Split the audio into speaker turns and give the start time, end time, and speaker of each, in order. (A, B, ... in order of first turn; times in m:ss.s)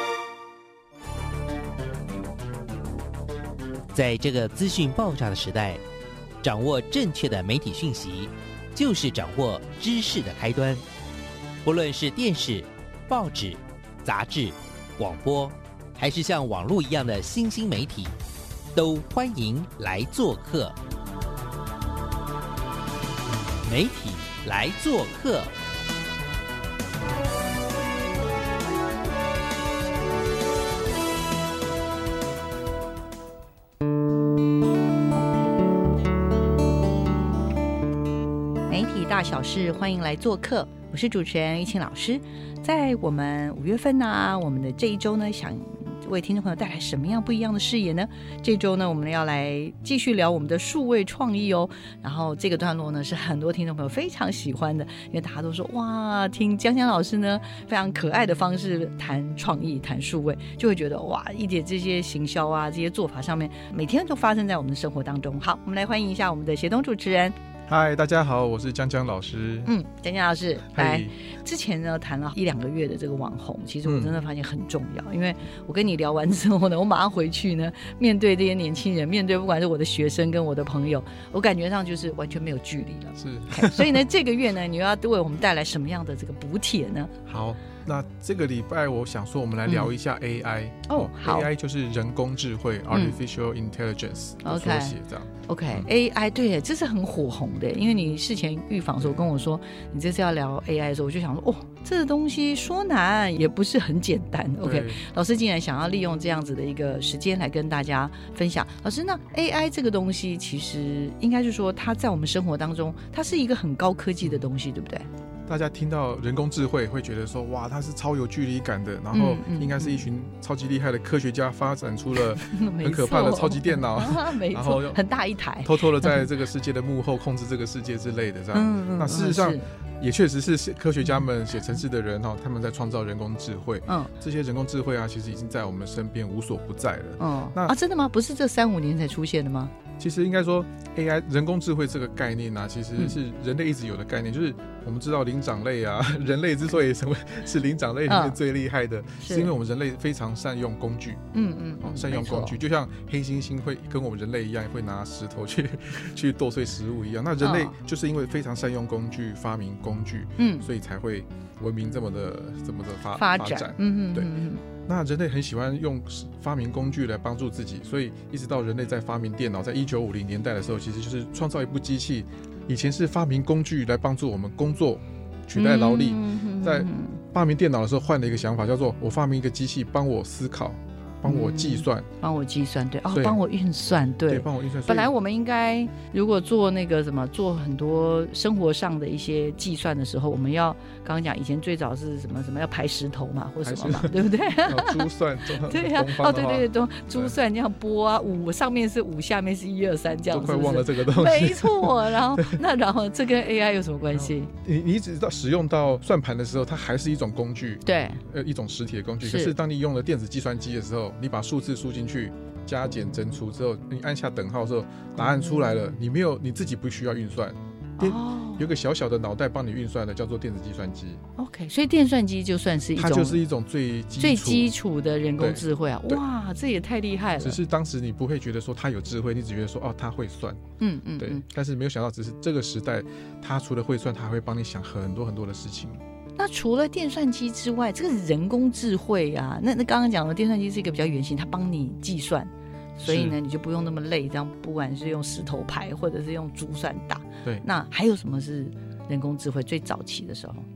0:03.9-0:05.8 A
0:06.4-0:10.8 A
0:11.6-0:18.1 A
0:18.7-0:20.7 A
0:23.7-0:25.5 A
0:38.7-1:07.4 B
1:07.7-1:09.7 C
1:09.7-1:27.1 B
1:10.7-1:11.1 C
1:13.8-1:14.1 C
1:23.2-1:24.0 C
1:27.3-1:35.9 C
1:30.9-1:31.5 B
1:32.9-1:33.2 B
1:34.4-1:34.9 B
1:35.5-1:55.1 B
1:44.6-1:45.0 C
1:55.5-2:05.0 C
1:59.1-2:00.1 B
2:02.4-2:06.3 B
2:05.6-2:17.8 C
2:08.5-2:09.7 B
2:17.2-2:19.7 B
2:20.0-2:31.2 C
2:28.1-2:28.4 B
2:29.2-2:29.5 B
2:31.3-2:32.6 B
2:31.8-2:44.3 C
2:37.4-2:37.8 B
2:40.4-2:40.7 B
2:43.2-2:44.6 B
2:44.8-3:02.1 C
2:55.5-2:57.2 B
3:01.2-3:15.1 B
3:03.1-3:03.4 C
3:04.2-3:05.1 C
3:13.6-3:17.3 C
3:15.6-3:24.5 B
3:20.3-3:22.6 C
3:24.1-3:41.2 C
3:27.8-3:28.2 B
3:29.2-3:29.6 B
3:35.2-3:35.9 B
3:38.0-3:38.6 B
3:41.4-3:43.4 B
3:42.9-3:44.7 C
3:44.2-3:47.6 B
3:45.4-3:46.2 C
3:47.4-3:50.6 C
3:50.8-3:51.4 B
3:51.2-3:56.0 C
3:56.4-4:10.6 B
4:03.0-4:03.4 C